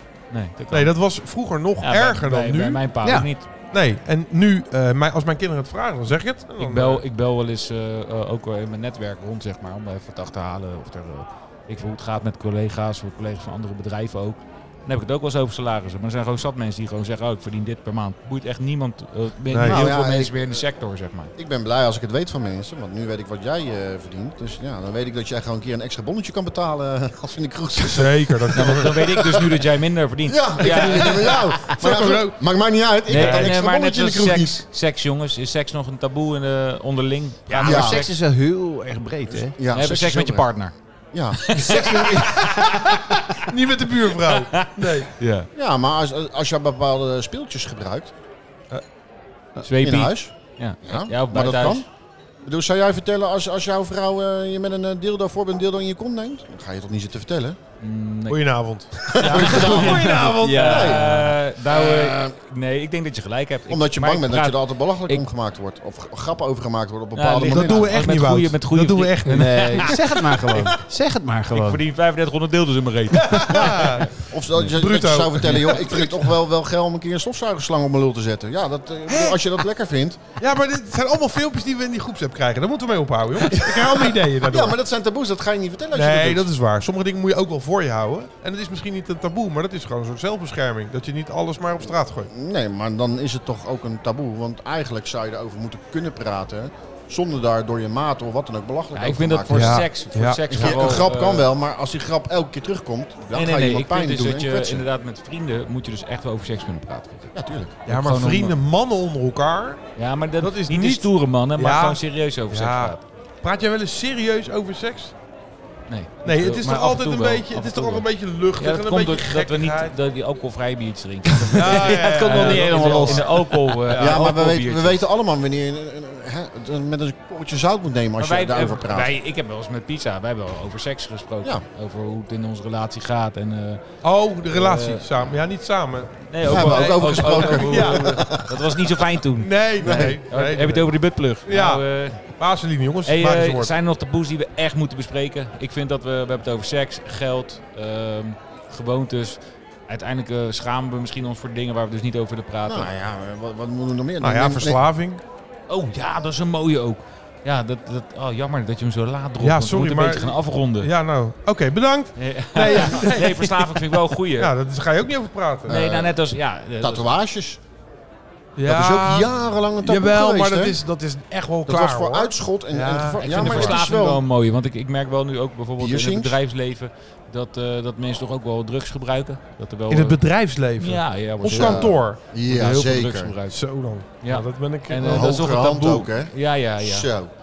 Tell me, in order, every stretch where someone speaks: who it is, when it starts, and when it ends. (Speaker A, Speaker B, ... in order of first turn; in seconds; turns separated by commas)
Speaker A: 0.3-0.9, Speaker B: 0.7-2.8, Speaker A: 1.8-3.5, Speaker C: 3.0-3.3, Speaker B: 3.7-7.0, Speaker A: 6.6-21.3, Speaker B: 19.5-19.9, Speaker D: 19.6-20.6, Speaker D: 21.4-29.7, Speaker B: 27.9-29.1, Speaker A: 28.5-31.6, Speaker D: 30.2-34.6, Speaker B: 31.8-32.4, Speaker A: 33.1-38.1, Speaker B: 33.1-33.5, Speaker C: 37.5-39.5, Speaker D: 37.6-38.1, Speaker D: 39.5-40.5, Speaker A: 39.7-40.7, Speaker D: 41.1-42.0, Speaker A: 41.3-43.2, Speaker C: 41.5-42.6, Speaker B: 43.0-45.1, Speaker A: 44.2-45.5, Speaker D: 45.5-48.1, Speaker A: 49.6-51.8, Speaker D: 49.8-51.9, Speaker D: 52.4-57.6, Speaker A: 57.8-58.5, Speaker B: 58.3-60.9, Speaker A: 59.1-65.3, Speaker D: 59.1-60.0, Speaker C: 59.6-61.4, Speaker D: 60.6-62.4, Speaker D: 63.7-68.0, Speaker A: 67.2-70.8, Speaker B: 67.5-70.8, Speaker C: 69.3-71.8, Speaker A: 71.5-74.1, Speaker B: 73.1-76.3, Speaker D: 73.5-80.3, Speaker B: 79.1-79.4, Speaker B: 80.4-84.8, Speaker D: 83.5-86.5, Speaker B: 85.9-92.3, Speaker D: 92.3-99.9, Speaker A: 99.0-101.5, Speaker B: 99.5-100.7, Speaker D: 100.5-104.9, Speaker A: 103.3-107.3, Speaker D: 107.3-107.8, Speaker A: 107.9-108.5, Speaker B: 107.9-109.8, Speaker A: 110.0-113.0, Speaker B: 110.4-115.2, Speaker A: 115.9-125.0, Speaker B: 116.2-119.9, Speaker B: 121.5-124.3, Speaker C: 121.7-123.5, Speaker D: 123.9-129.1, Speaker A: 128.2-133.8, Speaker B: 134.0-138.3, Speaker A: 134.5-135.2, Speaker A: 136.3-142.2, Speaker D: 136.4-138.8, Speaker B: 139.4-140.9, Speaker D: 139.8-140.2, Speaker B: 141.5-143.7, Speaker A: 143.1-149.4, Speaker A: 149.9-152.9, Speaker D: 152.7-154.8, Speaker B: 154.2-155.2, Speaker A: 155.7-160.9, Speaker B: 159.4-163.8, Speaker A: 162.2-164.5, Speaker B: 164.4-165.8, Speaker D: 165.7-166.3, Speaker A: 165.7-167.1, Speaker D: 166.8-167.6, Speaker B: 168.6-173.8, Speaker D: 168.7-170.8, Speaker D: 171.7-174.2, Speaker A: 173.2-180.2, Speaker D: 175.8-176.4, Speaker B: 179.9-182.2, Speaker A: 180.8-183.6, Speaker D: 181.5-183.3, Speaker B: 183.5-185.3, Speaker A: 184.2-187.1, Speaker D: 185.0-187.3